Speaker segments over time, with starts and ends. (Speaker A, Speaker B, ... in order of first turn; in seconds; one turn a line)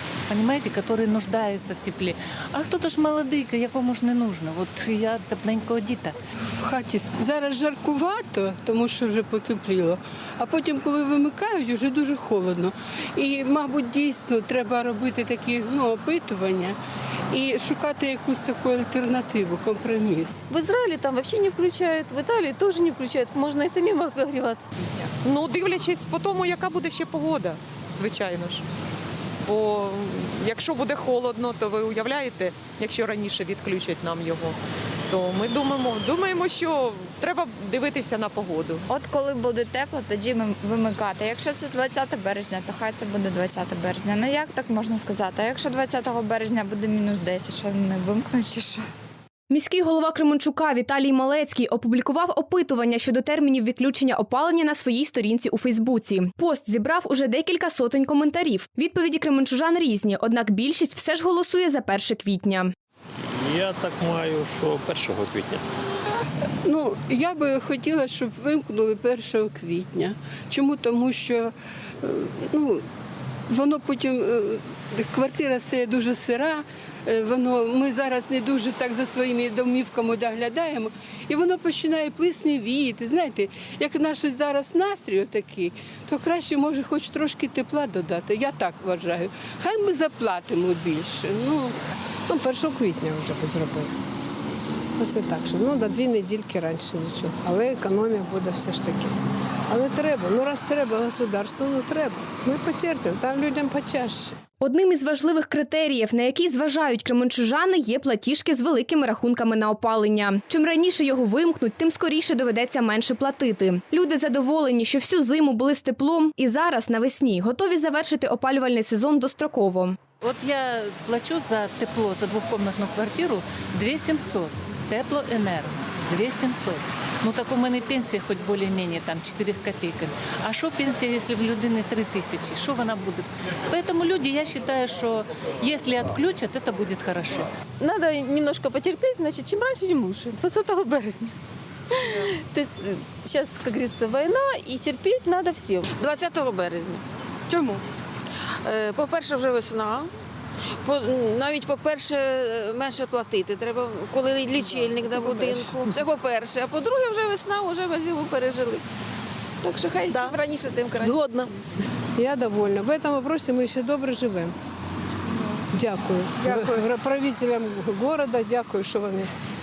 Speaker A: 0.3-6.2
Speaker B: 6.6-16.8
Speaker B: 17.3-20.3
Speaker C: 20.5-25.1
Speaker D: 25.2-28.6
Speaker D: 29.4-34.6
Speaker D: 35.1-38.9
Speaker E: 38.9-48.8
Speaker F: 49.5-62.7
Speaker G: 63.4-65.6
Speaker B: 66.7-72.8
Speaker B: 73.5-91.8
Speaker H: 92.3-93.9
Speaker H: 95.0-99.2
Speaker H: 99.7-104.4
Speaker F: 104.6-120.0
Speaker A: 120.2-137.5
Speaker C: 137.8-141.3
Speaker C: 141.9-145.8
Speaker I: 146.0-147.0
Speaker I: 148.6-150.1
Speaker I: 150.8-158.8
Speaker I: 159.6-161.1
Speaker C: 160.1-160.4
Speaker H: 162.2-164.6
Speaker H: 165.7-169.3